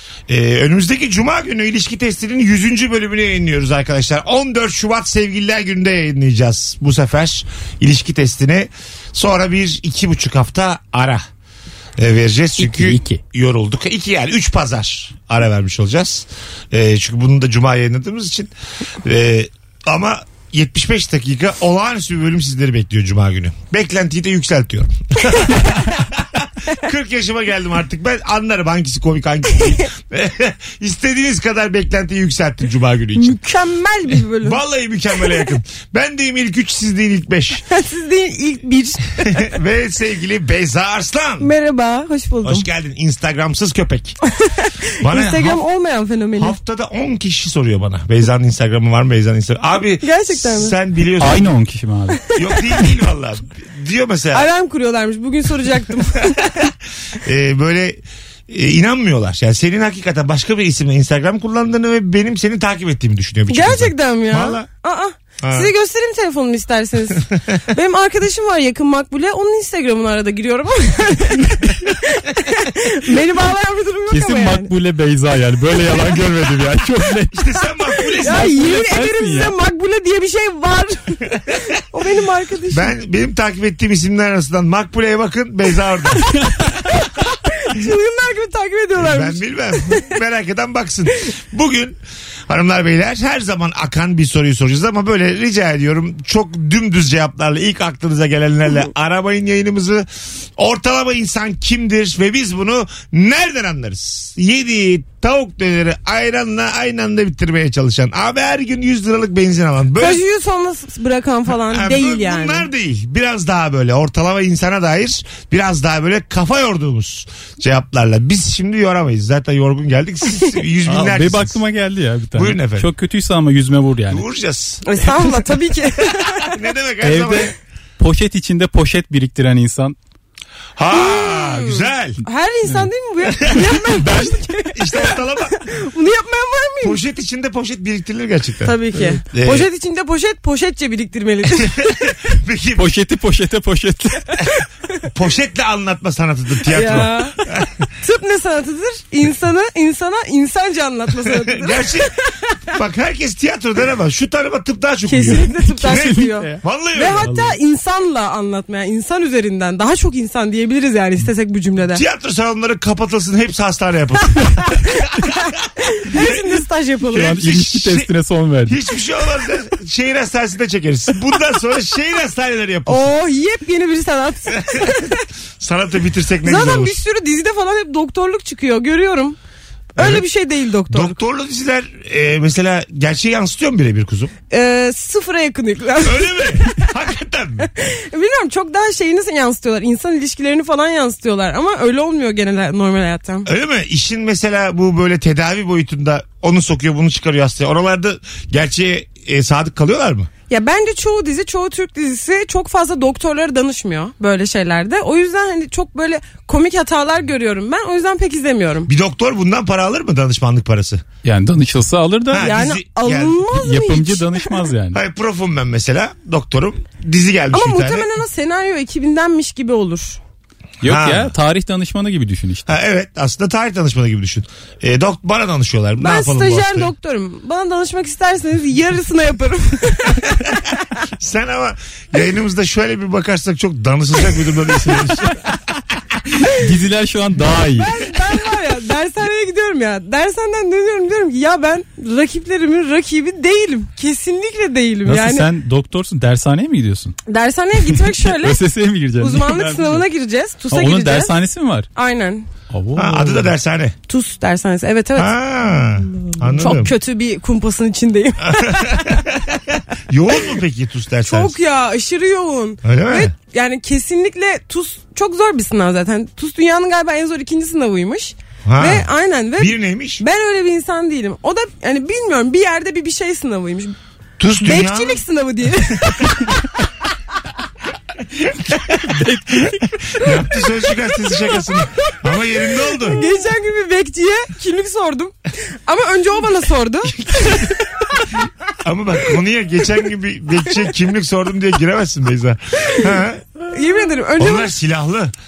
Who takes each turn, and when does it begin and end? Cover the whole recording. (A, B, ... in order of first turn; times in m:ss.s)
0:00.3-0:11.2 A
0:12.0-0:18.5 A
0:12.6-0:13.2 B
0:19.0-0:33.4 A
0:33.2-0:34.6 C
0:34.2-0:37.6 A
0:37.7-0:39.5 C
0:39.2-0:41.5 A
0:41.4-0:42.7 C
0:42.4-0:44.2 A
0:44.4-0:46.6 C
0:45.0-0:45.6 A
0:46.4-0:51.5 A
0:50.0-0:50.7 C
0:51.2-0:52.2 B
0:52.2-0:52.8 C
0:52.3-0:54.5 A
0:54.3-0:56.5 C
0:57.2-1:04.7 A
1:03.5-1:14.7 C
1:05.4-1:05.7 A
1:07.2-1:07.6 A
1:14.1-1:17.5 B
1:17.3-1:18.5 A
1:18.2-1:19.5 B
1:18.2-1:22.9 C
1:22.7-1:26.4 A
1:27.1-1:30.0 C
1:29.0-1:40.0 A
1:40.6-1:50.2 A
1:50.0-1:52.7 C
1:51.7-2:01.6 A
2:00.8-2:04.2 B
2:02.3-2:02.9 A
2:04.1-2:04.8 A
2:04.8-2:06.5 C
2:06.4-2:07.5 A
2:07.0-2:10.0 B
2:10.8-2:12.2 A
2:10.9-2:17.0 C
2:13.4-2:15.6 A
2:16.8-2:18.8 A
2:18.6-2:22.0 C
2:19.3-2:19.7 A
2:21.6-2:22.9 A
2:22.8-2:24.4 B
2:25.1-2:27.7 A
2:26.7-2:32.6 C
2:31.2-2:32.1 A
2:32.7-2:37.3 A
2:35.0-2:42.0 C
2:35.9-2:36.6 B
2:37.2-2:37.5 B
2:41.9-2:45.0 A
2:45.2-2:47.4 C
2:47.1-2:48.8 B
2:47.2-2:48.1 A
2:48.7-2:53.1 A
2:52.9-2:55.2 C
2:54.5-2:55.1 A
2:55.6-2:57.0 A
2:56.4-2:59.4 C
3:00.0-3:00.2 A
3:00.0-3:01.2 C
3:00.9-3:04.3 A
3:04.5-3:06.8 C
3:06.0-3:07.7 A
3:07.6-3:13.5 C
3:13.4-3:20.3 A
3:20.5-3:28.9 C
3:28.9-3:31.0 A
3:31.2-3:32.5 B
3:32.3-3:33.4 A
3:32.3-3:34.6 C
3:33.5-3:35.0 B
3:34.9-3:38.0 A
3:37.5-3:40.2 C
3:40.8-3:42.7 B
3:40.8-3:41.3 A
3:42.7-3:46.9 A
3:46.0-3:50.6 C
3:51.2-3:55.4 A
3:56.5-3:57.9 B
3:57.8-4:05.5 C
4:05.0-4:07.2 B
4:07.2-4:08.6 C
4:08.0-4:10.0 B
4:09.2-4:11.4 C
4:10.7-4:11.9 B
4:11.9-4:12.5 C
4:12.7-4:13.5 B
4:12.9-4:13.9 A
4:14.1-4:15.3 C
4:15.2-4:16.9 A
4:16.5-4:19.2 C
4:18.4-4:21.6 A
4:21.2-4:33.9 C
4:22.8-4:23.3 A
4:28.6-4:30.2 A
4:34.4-4:35.2 A
4:34.6-4:36.5 C
4:39.0-4:39.9 B
4:40.2-4:43.2 A
4:43.0-4:45.3 C
4:45.8-4:48.2 C
4:47.2-4:47.7 A
4:48.8-4:53.4 A
4:53.7-4:54.7 C
4:54.4-4:55.3 A